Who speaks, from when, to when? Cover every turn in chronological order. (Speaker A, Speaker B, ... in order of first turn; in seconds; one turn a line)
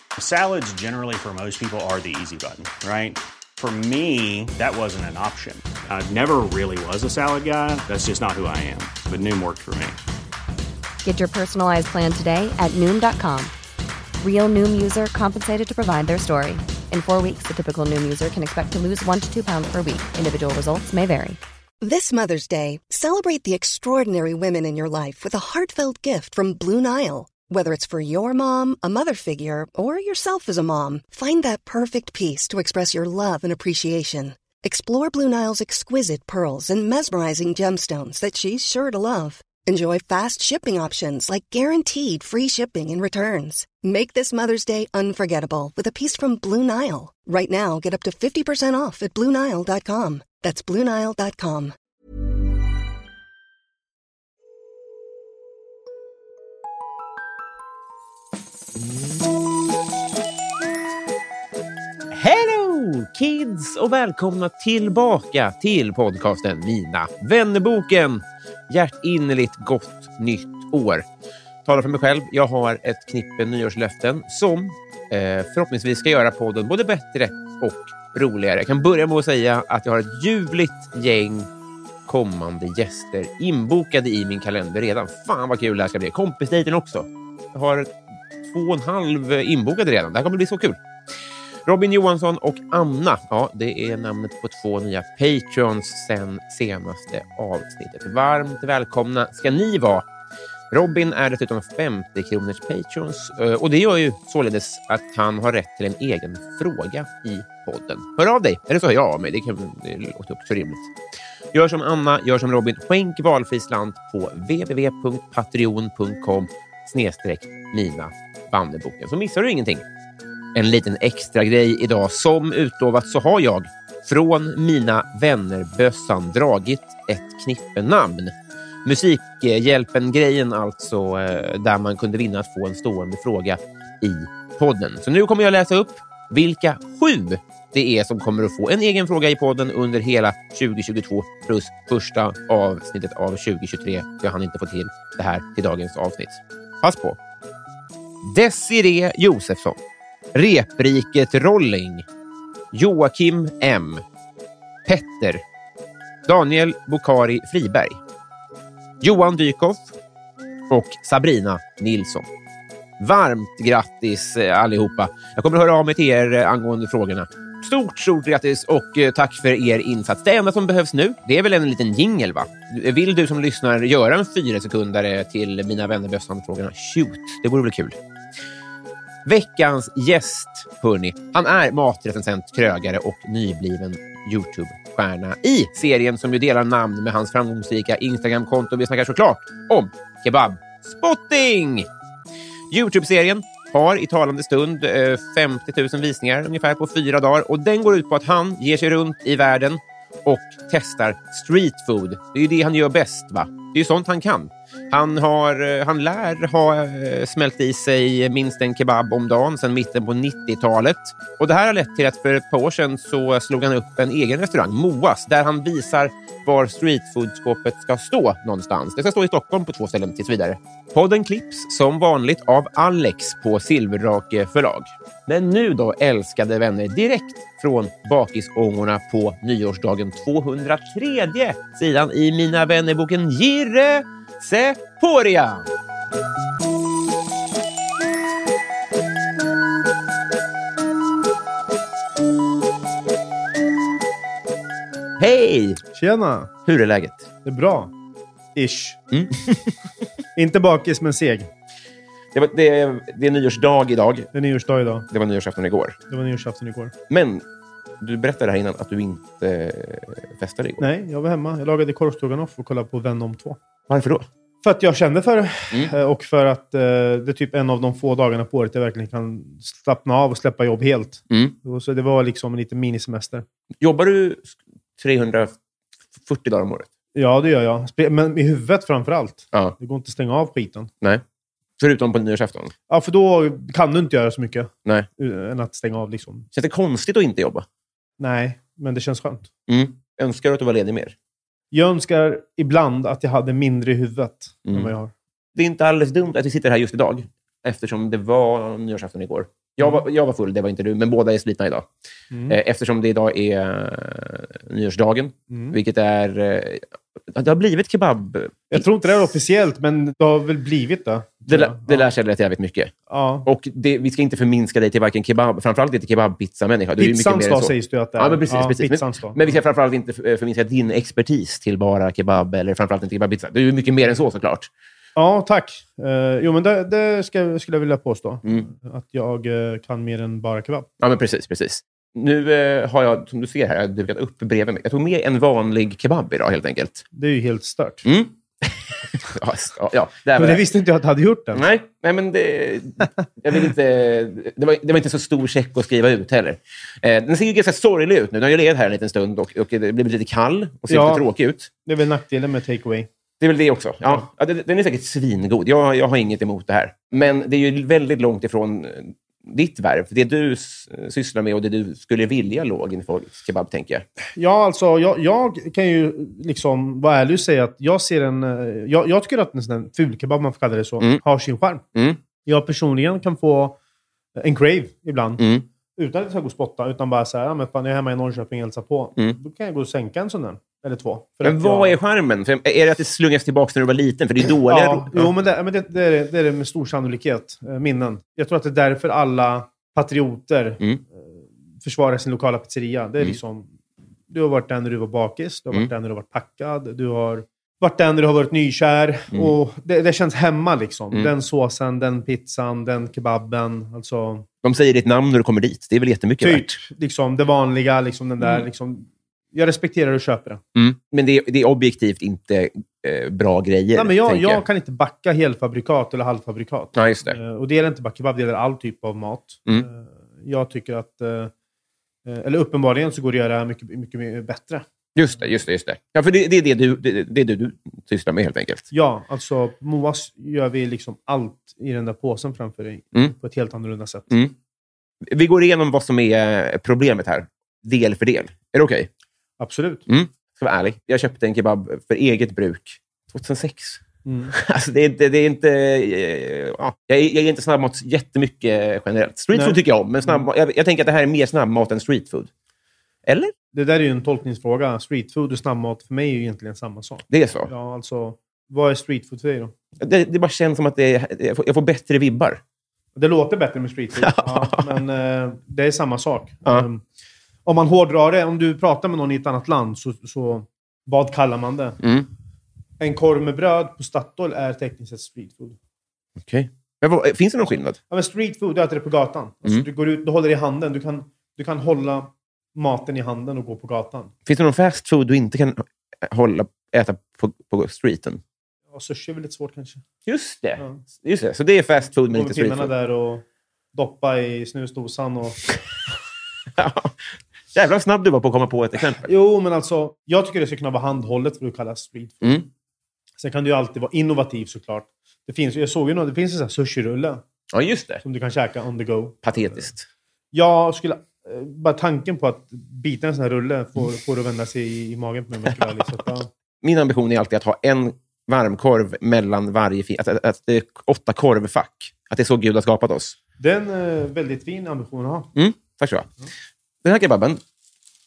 Speaker A: 0.2-10.0
Speaker B: 11.0-13.5
Speaker B: 14.2-21.4
Speaker C: 21.8-51.7
Speaker D: 62.1-71.0
Speaker D: 71.6-81.5
Speaker D: 82.0-90.8
Speaker D: 91.7-100.1
Speaker D: 100.7-110.9
Speaker D: 111.5-119.8
Speaker D: 120.5-147.2
Speaker D: 148.2-149.8
Speaker D: 150.3-152.1
Speaker D: 152.7-154.0
Speaker D: 154.8-155.4
Speaker D: 156.2-158.0
Speaker D: 159.0-159.9
Speaker D: 160.7-162.3
Speaker D: 163.0-178.0
Speaker D: 179.2-191.9
Speaker D: 192.7-235.7
Speaker D: 245.2-245.8
Speaker E: 245.9-246.5
Speaker D: 246.7-247.3
Speaker E: 247.4-247.9
Speaker E: 248.6-249.0
Speaker D: 249.1-249.7
Speaker E: 250.3-251.5
Speaker D: 252.3-254.3
Speaker E: 254.3-255.1
Speaker D: 255.1-256.0
Speaker E: 256.1-256.9
Speaker D: 257.1-257.4
Speaker D: 258.0-260.9
Speaker E: 260.8-263.6
Speaker D: 263.9-264.3
Speaker E: 264.6-273.4
Speaker D: 271.3-271.6
Speaker D: 273.8-275.6
Speaker D: 276.2-276.9
Speaker E: 277.1-280.9
Speaker D: 281.8-282.7
Speaker E: 282.9-286.5
Speaker D: 286.5-287.6
Speaker E: 288.2-289.5
Speaker D: 289.7-291.1
Speaker E: 291.7-295.1
Speaker D: 295.5-301.9
Speaker E: 302.3-302.6
Speaker D: 302.5-308.8
Speaker E: 305.5-305.8
Speaker E: 308.7-312.1
Speaker D: 311.5-312.9
Speaker E: 313.1-313.5
Speaker D: 313.4-324.7
Speaker E: 317.0-319.5
Speaker E: 325.1-330.9
Speaker D: 331.0-337.0
Speaker E: 337.1-338.0
Speaker D: 338.0-340.6
Speaker E: 340.3-341.6
Speaker D: 341.5-351.7
Speaker E: 350.9-351.2
Speaker E: 351.8-353.1
Speaker D: 353.4-364.1
Speaker E: 364.3-371.8
Speaker E: 372.4-373.8
Speaker E: 374.4-382.0
Speaker D: 375.4-375.7
Speaker D: 381.4-385.3
Speaker E: 384.7-393.7
Speaker E: 394.3-404.4
Speaker D: 404.6-406.8
Speaker E: 406.4-410.6
Speaker D: 410.7-414.6
Speaker E: 413.9-421.5
Speaker D: 416.9-417.4
Speaker E: 422.2-424.8
Speaker D: 425.1-428.9
Speaker E: 428.9-434.3
Speaker D: 435.2-439.1
Speaker E: 439.6-440.0
Speaker D: 440.1-452.5
Speaker E: 444.2-444.5
Speaker E: 449.5-449.8
Speaker D: 453.2-453.5
Speaker E: 453.7-459.7
Speaker D: 457.3-457.7
Speaker D: 460.0-462.6
Speaker E: 463.1-467.0
Speaker D: 464.2-464.9
Speaker E: 467.6-472.0
Speaker D: 472.0-472.3
Speaker E: 473.0-475.8
Speaker D: 476.4-478.0
Speaker E: 478.1-484.3
Speaker D: 484.4-488.4
Speaker E: 488.9-490.0
Speaker D: 490.2-492.9
Speaker E: 492.3-495.6
Speaker D: 496.7-499.3
Speaker E: 499.2-502.6
Speaker E: 503.4-507.4
Speaker D: 507.7-508.2
Speaker E: 508.2-509.8
Speaker D: 509.4-510.1
Speaker E: 510.5-516.5
Speaker D: 516.8-523.4
Speaker E: 523.6-525.5
Speaker D: 525.5-526.3
Speaker D: 527.0-527.6